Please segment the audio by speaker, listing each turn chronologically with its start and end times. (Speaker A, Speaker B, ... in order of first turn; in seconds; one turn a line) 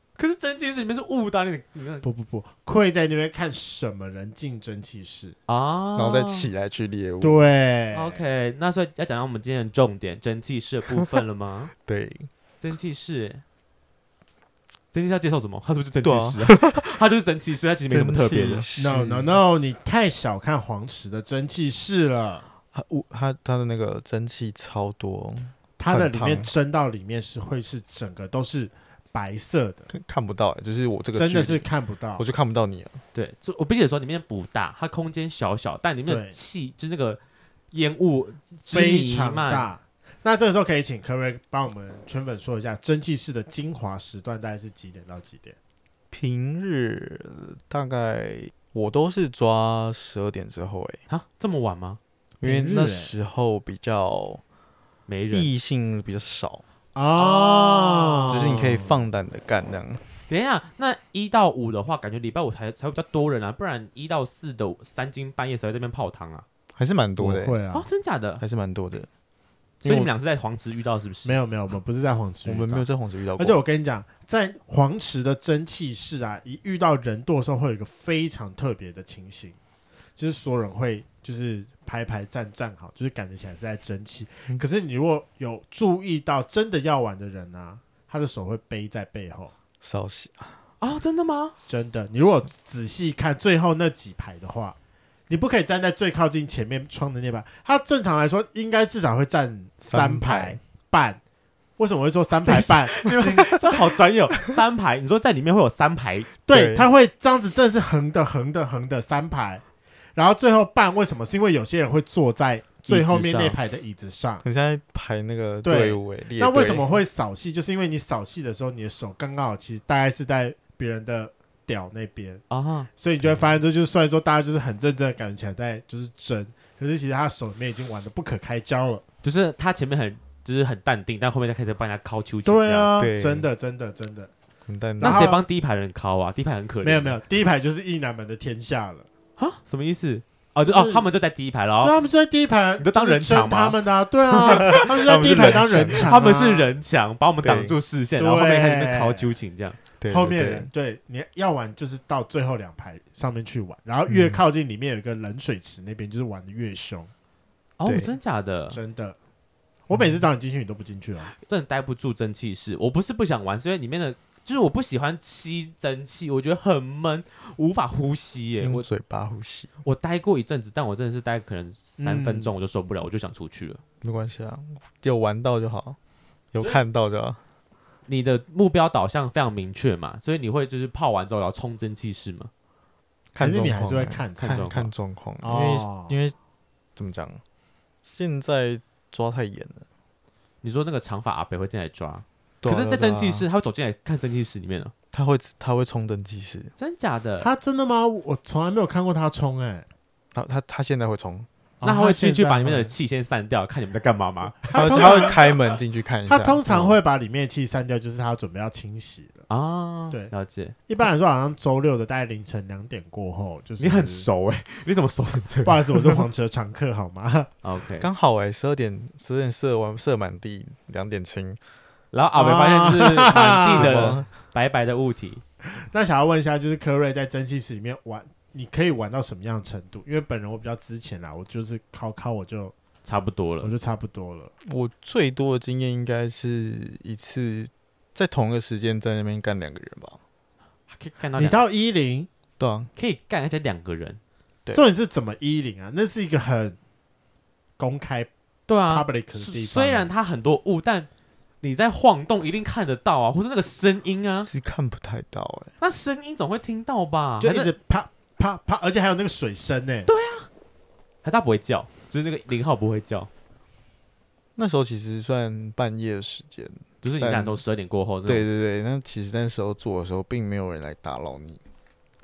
Speaker A: 0.2-2.0
Speaker B: 2.0-5.3
Speaker A: 5.5-6.5
Speaker C: 6.0-7.5
Speaker B: 7.2-8.2
Speaker A: 7.9-11.7
Speaker C: 11.8-12.3
Speaker A: 12.6-13.4
Speaker A: 14.9-18.6
Speaker C: 16.0-16.9
Speaker C: 17.9-19.4
Speaker B: 18.8-22.4
Speaker C: 22.7-26.5
Speaker B: 25.8-29.9
Speaker C: 29.9-33.0
Speaker B: 31.1-32.2
Speaker A: 33.1-37.2
Speaker B: 36.1-36.4
Speaker A: 37.7-39.7
Speaker B: 38.7-45.6
Speaker C: 46.1-51.0
Speaker A: 51.1-52.0
Speaker C: 52.4-54.4
Speaker B: 52.4-53.1
Speaker A: 55.1-55.5
Speaker C: 55.3-56.6
Speaker B: 56.9-58.9
Speaker A: 57.1-58.4
Speaker C: 58.3-60.1
Speaker A: 60.3-66.4
Speaker C: 66.8-67.6
Speaker B: 67.2-67.8
Speaker A: 67.7-68.4
Speaker C: 68.4-69.1
Speaker A: 69.8-71.4
Speaker B: 71.2-72.8
Speaker C: 72.4-73.6
Speaker B: 73.4-79.5
Speaker B: 80.2-89.5
Speaker C: 89.8-90.5
Speaker A: 90.8-91.5
Speaker B: 91.7-94.8
Speaker B: 95.3-101.2
Speaker C: 99.9-100.6
Speaker B: 101.8-103.6
Speaker A: 102.5-106.3
Speaker B: 106.5-109.6
Speaker C: 106.5-106.9
Speaker B: 110.1-114.4
Speaker A: 112.9-113.6
Speaker C: 114.4-116.9
Speaker B: 115.6-122.4
Speaker A: 122.5-122.9
Speaker B: 123.0-129.0
Speaker A: 129.2-132.9
Speaker B: 132.4-134.3
Speaker C: 133.0-133.5
Speaker C: 134.7-135.3
Speaker B: 135.0-135.4
Speaker A: 135.0-137.2
Speaker B: 136.8-139.1
Speaker A: 139.4-141.9
Speaker B: 140.7-141.1
Speaker B: 141.8-146.7
Speaker A: 142.8-143.8
Speaker A: 144.3-145.4
Speaker C: 144.4-146.2
Speaker A: 146.0-149.8
Speaker C: 147.4-147.8
Speaker B: 148.2-149.3
Speaker C: 150.0-150.7
Speaker B: 150.1-157.1
Speaker C: 154.1-154.4
Speaker A: 157.8-158.8
Speaker C: 157.8-158.1
Speaker B: 158.7-159.2
Speaker B: 159.9-161.3
Speaker C: 159.9-160.2
Speaker A: 161.4-168.9
Speaker C: 168.6-169.7
Speaker A: 169.8-173.8
Speaker B: 172.0-172.5
Speaker C: 174.0-176.0
Speaker C: 176.5-177.4
Speaker A: 178.1-182.5
Speaker C: 183.3-186.3
Speaker B: 183.4-184.7
Speaker A: 184.4-184.9
Speaker B: 185.4-186.2
Speaker C: 186.9-187.4
Speaker C: 188.0-189.9
Speaker A: 190.6-194.9
Speaker C: 192.6-193.5
Speaker C: 195.1-196.7
Speaker A: 196.8-197.5
Speaker B: 197.4-199.9
Speaker C: 200.3-201.5
Speaker B: 201.8-202.9
Speaker A: 201.8-205.5
Speaker B: 204.7-205.4
Speaker C: 204.7-207.0
Speaker B: 206.3-209.4
Speaker A: 209.5-210.8
Speaker B: 210.9-214.3
Speaker A: 213.8-215.9
Speaker B: 215.6-217.5
Speaker A: 217.6-218.1
Speaker C: 218.0-221.6
Speaker A: 222.1-225.4
Speaker B: 222.3-224.2
Speaker C: 223.7-224.3
Speaker B: 225.7-232.7
Speaker A: 233.0-233.7
Speaker B: 233.6-234.5
Speaker C: 234.6-240.2
Speaker A: 240.9-241.6
Speaker B: 241.3-242.3
Speaker C: 242.6-242.9
Speaker A: 242.9-244.2
Speaker B: 244.7-246.8
Speaker B: 247.8-248.3
Speaker A: 248.7-251.1
Speaker B: 248.9-250.1
Speaker A: 251.6-254.5
Speaker C: 254.4-255.7
Speaker A: 255.8-257.7
Speaker B: 257.4-260.1
Speaker A: 260.1-260.5
Speaker A: 261.2-263.3
Speaker C: 264.6-267.6
Speaker A: 267.0-268.5
Speaker C: 268.2-271.6